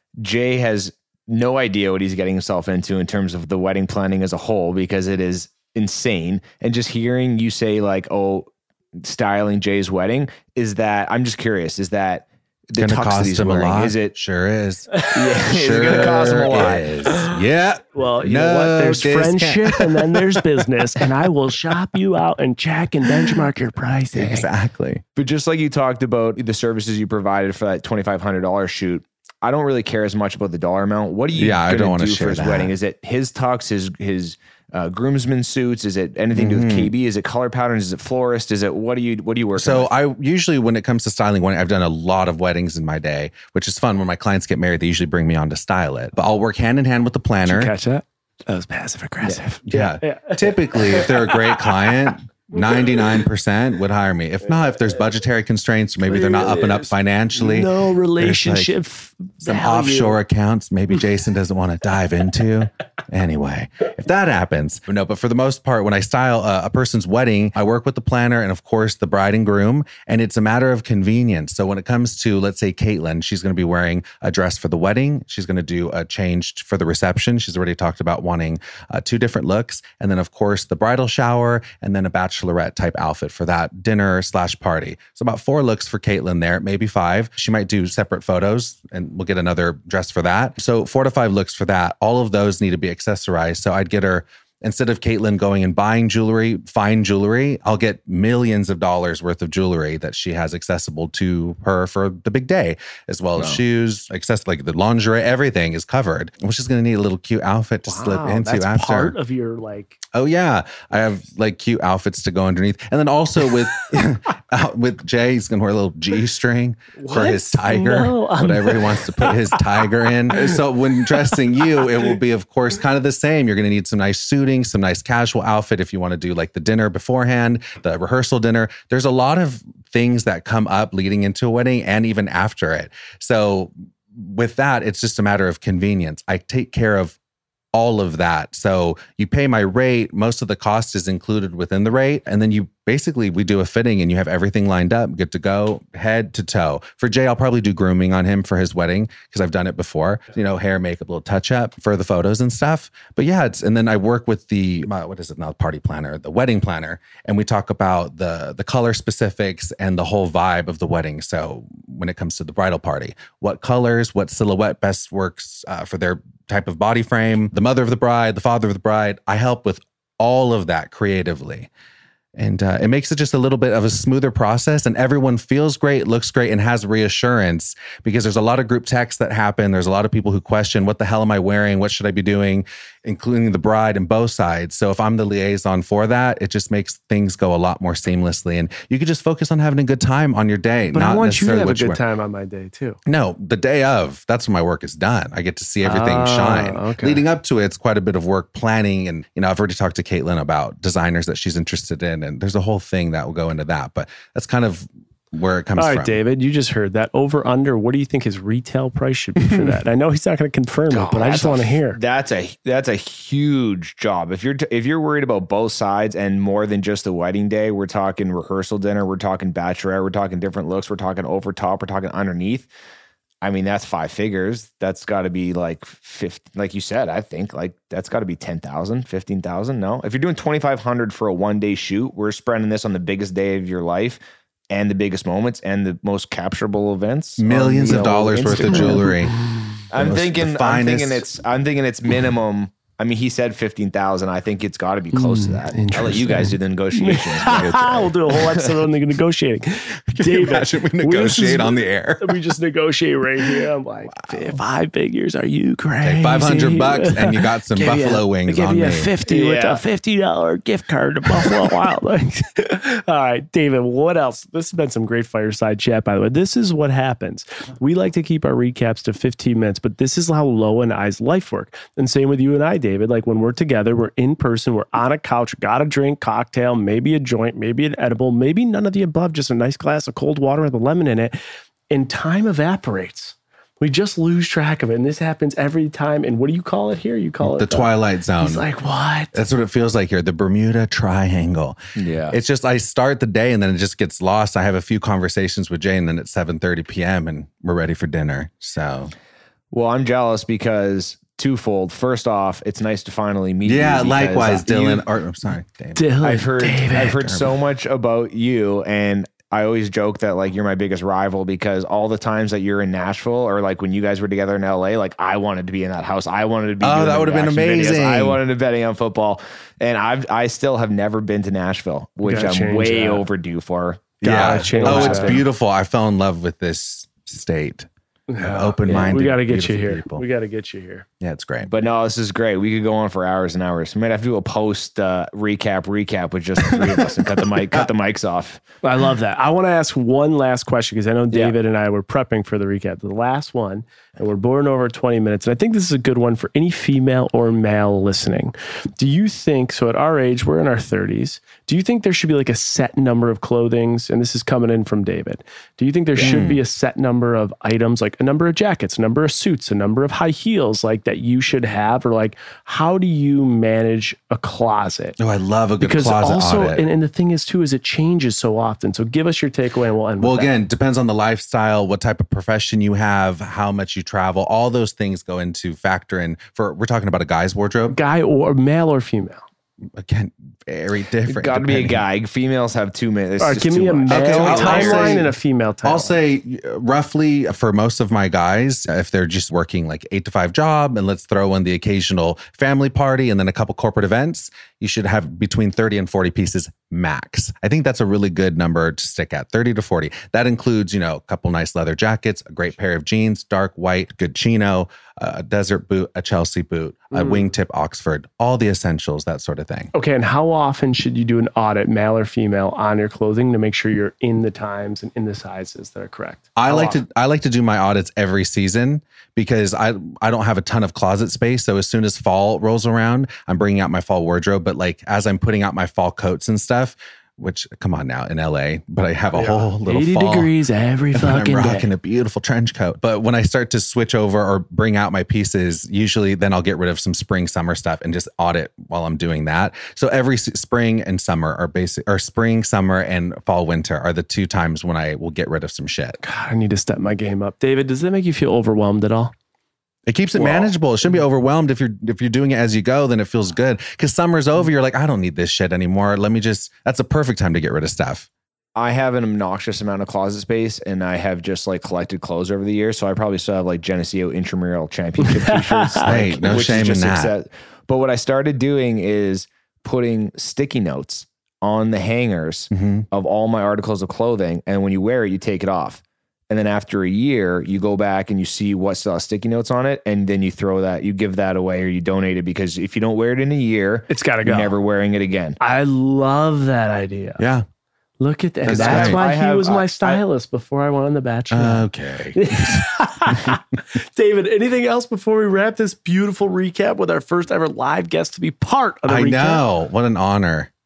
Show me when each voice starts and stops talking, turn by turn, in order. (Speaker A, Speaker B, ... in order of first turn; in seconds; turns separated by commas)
Speaker A: 0.2-14.1, Speaker B: 12.8-14.9, Speaker C: 14.9-17.4, Speaker A: 15.1-16.9, Speaker B: 15.5-21.0, Speaker C: 17.9-24.5, Speaker B: 24.1-25.0, Speaker A: 25.1-39.9, Speaker B: 31.3-32.7, Speaker B: 36.3-36.9, Speaker B: 39.6-47.7, Speaker C: 47.5-53.1, Speaker B: 49.6-58.7, Speaker C: 56.0-60.2, Speaker B: 59.4-109.1, Speaker C: 107.8-110.0, Speaker B: 110.1-137.2, Speaker C: 117.0-120.5, Speaker B: 137.7-171.7, Speaker B: 172.3-192.0, Speaker C: 190.9-193.0, Speaker B: 193.1-206.2, Speaker C: 195.8-197.2, Speaker C: 205.7-212.0, Speaker A: 210.9-222.7, Speaker A: 223.4-239.2, Speaker B: 237.4-239.3, Speaker C: 237.9-239.7, Speaker A: 239.9-248.7, Speaker B: 239.9-241.2, Speaker C: 245.1-281.4, Speaker B: 250.2-252.4, Speaker B: 256.0-259.1, Speaker A: 259.2-259.8, Speaker C: 281.9-289.3, Speaker B: 287.4-288.6, Speaker B: 289.3-291.8, Speaker A: 291.9-292.4, Speaker B: 292.3-299.1, Speaker A: 299.7-305.0, Speaker B: 303.6-306.2, Speaker C: 305.9-307.2, Speaker A: 306.2-325.4, Speaker B: 306.9-307.6, Speaker B: 316.8-318.4, Speaker C: 322.2-323.2, Speaker C: 324.2-325.4, Speaker B: 324.2-327.9, Speaker C: 328.3-331.1, Speaker B: 328.4-330.2, Speaker B: 331.2-331.7, Speaker A: 331.6-338.6, Speaker C: 338.8-365.2, Speaker B: 356.1-356.6, Speaker B: 365.2-366.9, Speaker C: 365.8-370.5, Speaker B: 370.2-378.0, Speaker C: 377.9-379.4, Speaker B: 379.9-382.0, Speaker A: 381.3-385.3, Speaker C: 383.4-386.2, Speaker B: 384.1-385.3, Speaker B: 385.8-409.9, Speaker C: 407.1-407.4, Speaker C: 409.9-417.0, Speaker B: 416.6-430.5, Speaker C: 429.3-431.9, Speaker B: 431.1-446.2, Speaker C: 446.2-449.3, Speaker B: 450.1-458.3, Speaker A: 450.3-450.7, Speaker A: 458.8-485.6, Speaker C: 465.3-466.3, Speaker B: 466.0-467.3, Speaker B: 472.7-473.1, Speaker C: 484.1-484.8, Speaker C: 485.6-487.4, Speaker B: 487.4-487.6, Speaker C: 488.2-499.6, Speaker B: 488.6-489.2, Speaker A: 488.7-490.2, Speaker B: 491.5-493.5, Speaker B: 499.1-500.7